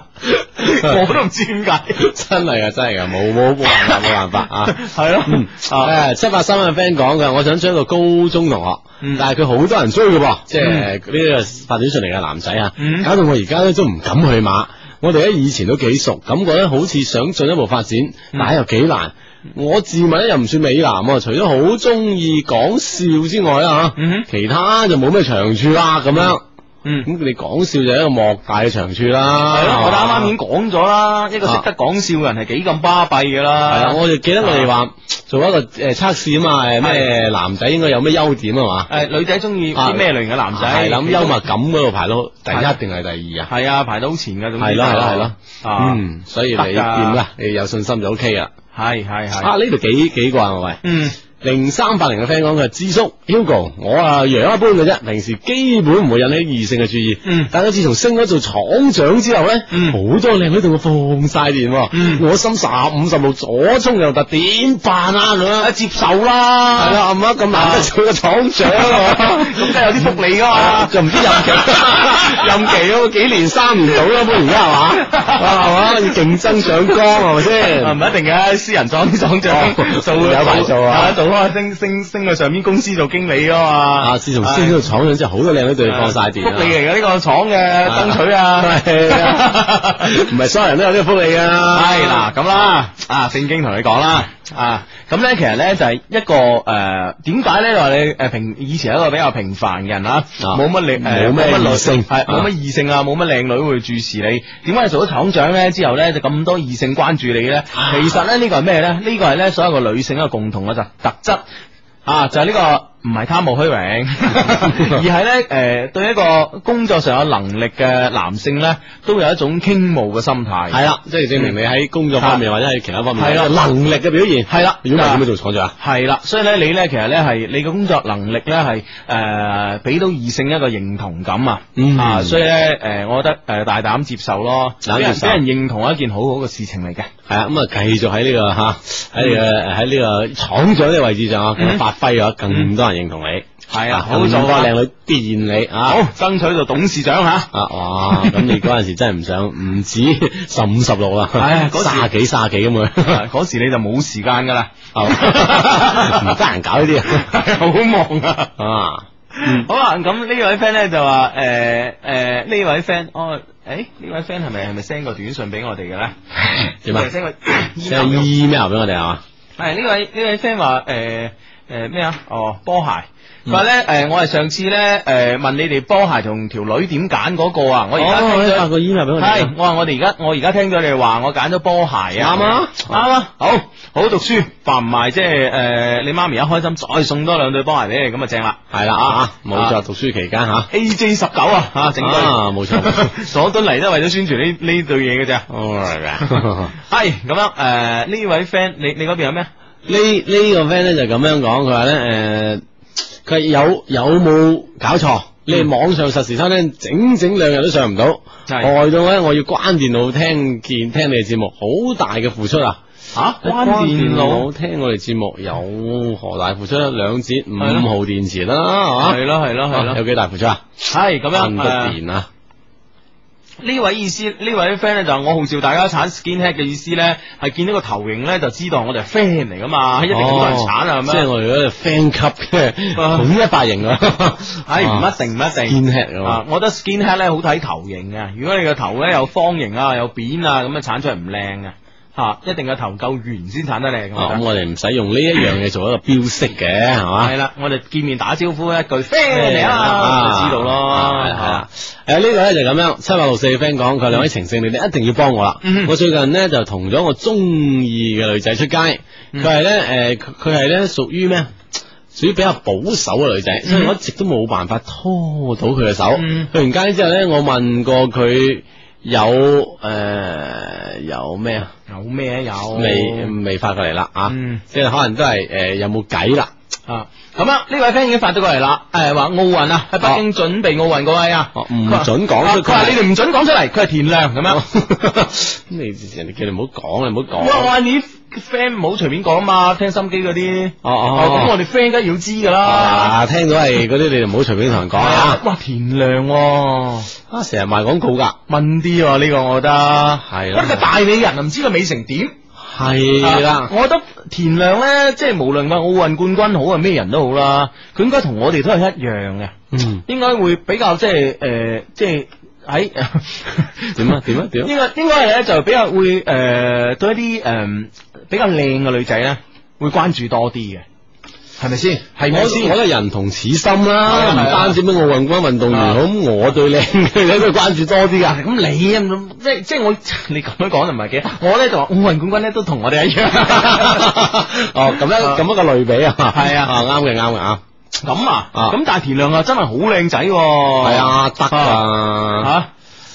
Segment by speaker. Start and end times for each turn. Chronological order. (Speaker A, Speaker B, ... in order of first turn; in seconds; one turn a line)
Speaker A: 0.2-2.0
Speaker B: 0.7-0.9
Speaker B: 2.0-26.4
Speaker A: 4.7-5.9
Speaker A: 9.0-9.2
Speaker A: 10.6-10.9
Speaker A: 12.8-13.1
Speaker A: 23.9-24.3
Speaker A: 26.8-27.1
Speaker B: 27.0-30.3
Speaker A: 29.5-34.7
Speaker B: 33.7-38.9
Speaker A: 36.8-37.1
Speaker A: 38.9-41.4
Speaker B: 39.7-43.5
Speaker A: 43.5-46.0
Speaker B: 44.6-48.5
Speaker A: 46.5-47.2
Speaker A: 48.7-49.5
Speaker B: 49.4-50.8
Speaker A: 50.8-51.2
Speaker B: 51.4-65.7
Speaker A: 57.2-57.5
Speaker A: 59.7-60.0
Speaker A: 61.9-62.2
Speaker A: 65.6-67.0
Speaker B: 66.8-78.0
Speaker A: 67.5-67.9
Speaker A: 68.7-72.8
Speaker A: 75.0-76.7
Speaker A: 77.5-84.8
Speaker B: 79.5-81.2
Speaker B: 84.0-86.8
Speaker A: 85.8-90.2
Speaker B: 87.8-92.3
Speaker A: 91.7-111.4
Speaker B: 100.4-102.5
Speaker A: 112.0-120.8
Speaker B: 114.7-115.0
Speaker B: 120.7-125.7
Speaker A: 123.2-123.5
Speaker A: 124.5-125.2
Speaker A: 125.8-137.1
Speaker B: 131.8-132.4
Speaker B: 134.8-135.4
Speaker B: 137.3-146.0
Speaker A: 139.2-139.4
Speaker A: 141.6-141.8
Speaker A: 143.7-144.7
Speaker A: 145.8-147.5
Speaker B: 147.5-153.2
Speaker A: 148.1-148.6
Speaker A: 151.3-152.1
Speaker A: 153.0-156.3
Speaker B: 154.9-157.3
Speaker A: 157.1-158.5
Speaker B: 158.6-159.7
Speaker A: 159.3-168.3
Speaker B: 166.8-167.1
Speaker B: 167.8-169.2
Speaker A: 169.6-189.8
Speaker B: 178.0-179.5
Speaker B: 182.2-182.9
Speaker B: 188.7-190.7
Speaker A: 190.7-195.5
Speaker B: 191.9-193.1
Speaker B: 195.5-196.7
Speaker A: 196.2-199.5
Speaker B: 199.8-202.6
Speaker B: 203.2-212.8
Speaker A: 208.5-208.7
Speaker A: 213.1-214.5
Speaker B: 213.4-220.6
Speaker A: 217.6-217.9
Speaker A: 219.0-220.0
Speaker A: 220.8-222.0
Speaker B: 221.3-222.3
Speaker A: 223.6-231.3
Speaker B: 230.1-235.1
Speaker A: 232.9-233.3
Speaker A: 234.6-244.4
Speaker B: 235.7-236.4
Speaker B: 244.2-247.3
Speaker A: 247.2-251.6
Speaker B: 249.3-261.5
Speaker A: 255.6-255.9
Speaker B: 262.1-271.7
Speaker A: 263.6-263.9
Speaker A: 266.1-266.5
Speaker A: 271.9-273.3
Speaker B: 272.7-276.5
Speaker A: 274.3-274.6
Speaker A: 276.9-284.6
Speaker B: 281.5-283.0
Speaker B: 284.5-287.7
Speaker A: 287.4-293.2
Speaker B: 290.8-291.6
Speaker B: 292.6-295.4
Speaker A: 294.9-297.1
Speaker B: 297.3-298.4
Speaker A: 298.5-302.3
Speaker B: 300.2-300.9
Speaker B: 302.6-303.7
Speaker A: 303.2-309.5
Speaker B: 309.7-310.0
Speaker A: 310.1-320.8
Speaker B: 313.9-314.7
Speaker A: 321.6-322.8
Speaker B: 322.3-328.4
Speaker A: 324.0-324.8
Speaker A: 325.7-326.0
Speaker A: 328.2-334.3
Speaker B: 333.5-337.6
Speaker A: 335.1-335.4
Speaker A: 336.3-336.8
Speaker A: 338.0-341.8
Speaker B: 340.8-342.5
Speaker A: 342.4-342.7